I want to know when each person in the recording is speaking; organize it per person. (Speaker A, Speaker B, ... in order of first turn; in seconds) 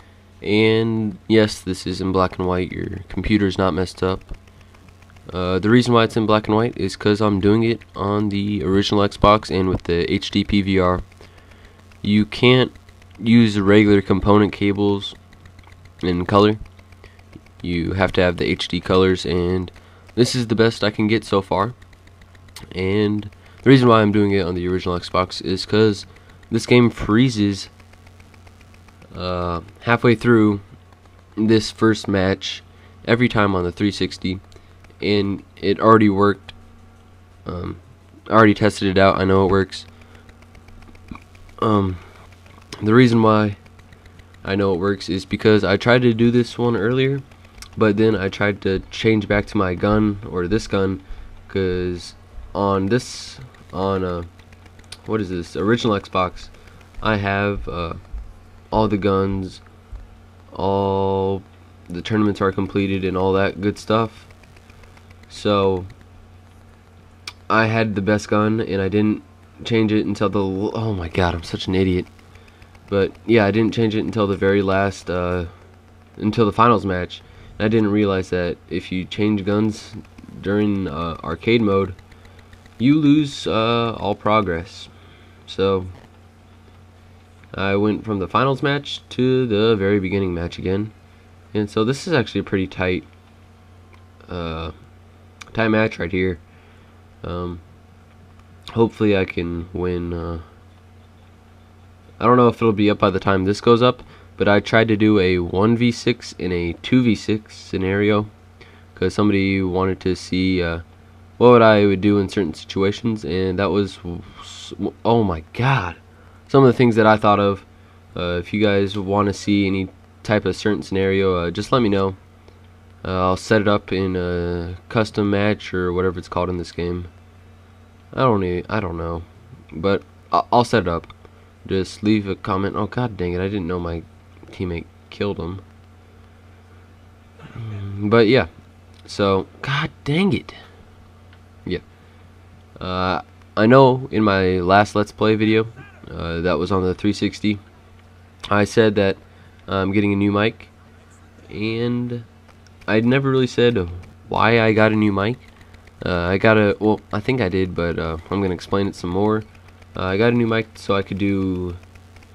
Speaker A: 0.4-4.3, 5.3-11.0, 12.0-15.2, 16.0-16.6, 17.6-21.8, 22.7-27.7, 29.1-30.6, 31.4-34.4, 35.0-36.5, 37.5-39.9, 41.6-42.0, 42.8-43.6, 44.4-47.2, 47.8-54.3, 55.1-58.0, 58.7-59.6, 60.5-64.3, 65.3-65.9, 67.5-72.1, 72.9-75.5, 76.2-82.0, 82.8-84.9, 85.5-86.0, 87.5-90.9, 91.5-93.1, 94.3-94.7, 95.5-96.4, 97.2-97.6, 98.7-100.5, 102.2-108.3, 109.0-110.8, 111.4-122.2, 123.0-127.1, 128.1-131.1, 131.7-135.6, 137.5-138.5, 139.1-140.6, 142.8-147.6, 148.5-150.7, 151.5-152.3, 152.9-155.5, 156.0-161.8